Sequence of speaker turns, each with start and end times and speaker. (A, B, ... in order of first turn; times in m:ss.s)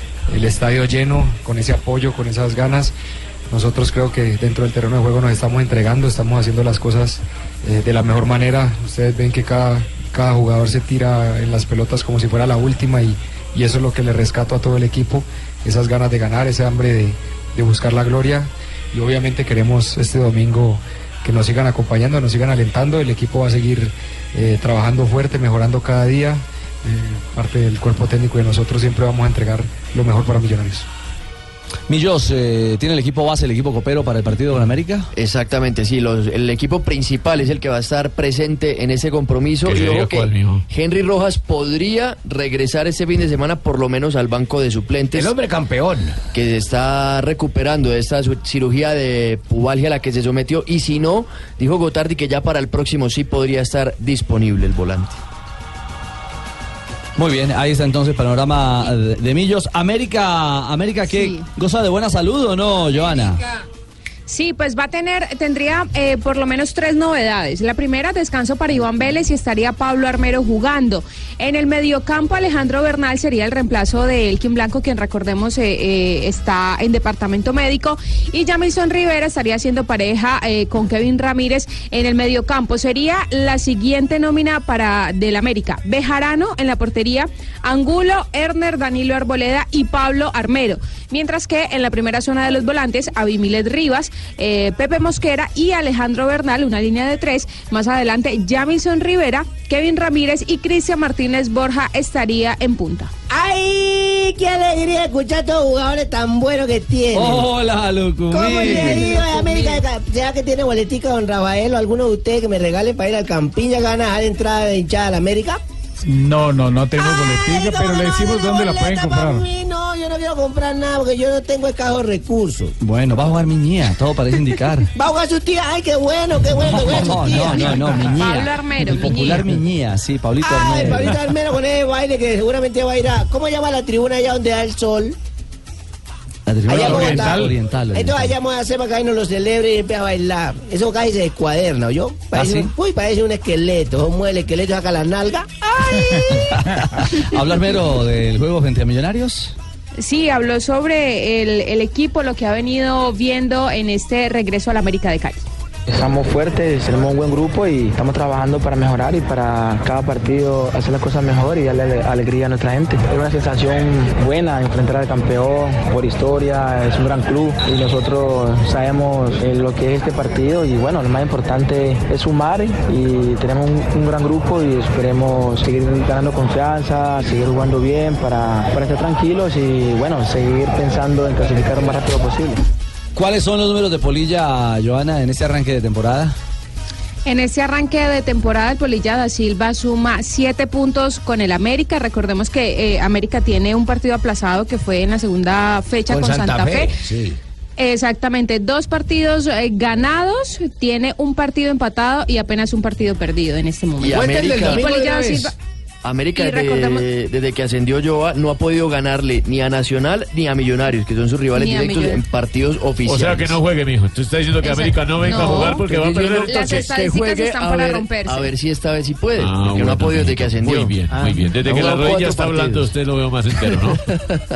0:00.3-0:02.9 A
0:03.5-0:30.9 A
0:31.9-0:35.1 B
0:35.1-0:45.3 C
0:39.6-0:40.6 D
0:45.1-0:46.2 E
0:46.3-0:55.2 C
0:57.2-1:03.4 B
1:04.3-1:43.1 F
1:43.3-1:47.5 E
1:47.1-1:49.4 B
1:48.3-1:55.6 E
1:56.1-1:59.5 G
1:57.0-2:02.7 E
2:02.8-2:04.9 B
2:05.0-2:08.1 E
2:06.6-2:11.3 B
2:08.2-2:09.4 F
2:10.4-2:15.2 E
2:16.5-2:18.3 B
2:16.7-2:26.1 E
2:16.7-2:17.5 G
2:22.3-2:22.7 B
2:26.5-2:29.6 B
2:30.0-2:35.4 F
2:35.9-3:02.6 H
3:03.2-3:06.4 B
3:07.3-3:16.9 F
3:16.1-3:17.4 E
3:17.8-3:25.5 F
3:24.0-3:25.0 C
3:24.1-3:25.5 E
3:26.0-3:33.6 C
3:26.4-3:27.1 F
3:31.6-3:32.2 F
3:33.1-3:37.4 D
3:34.6-3:38.5 F
3:37.5-3:41.0 C
3:39.4-3:44.0 D
3:41.8-3:42.2 C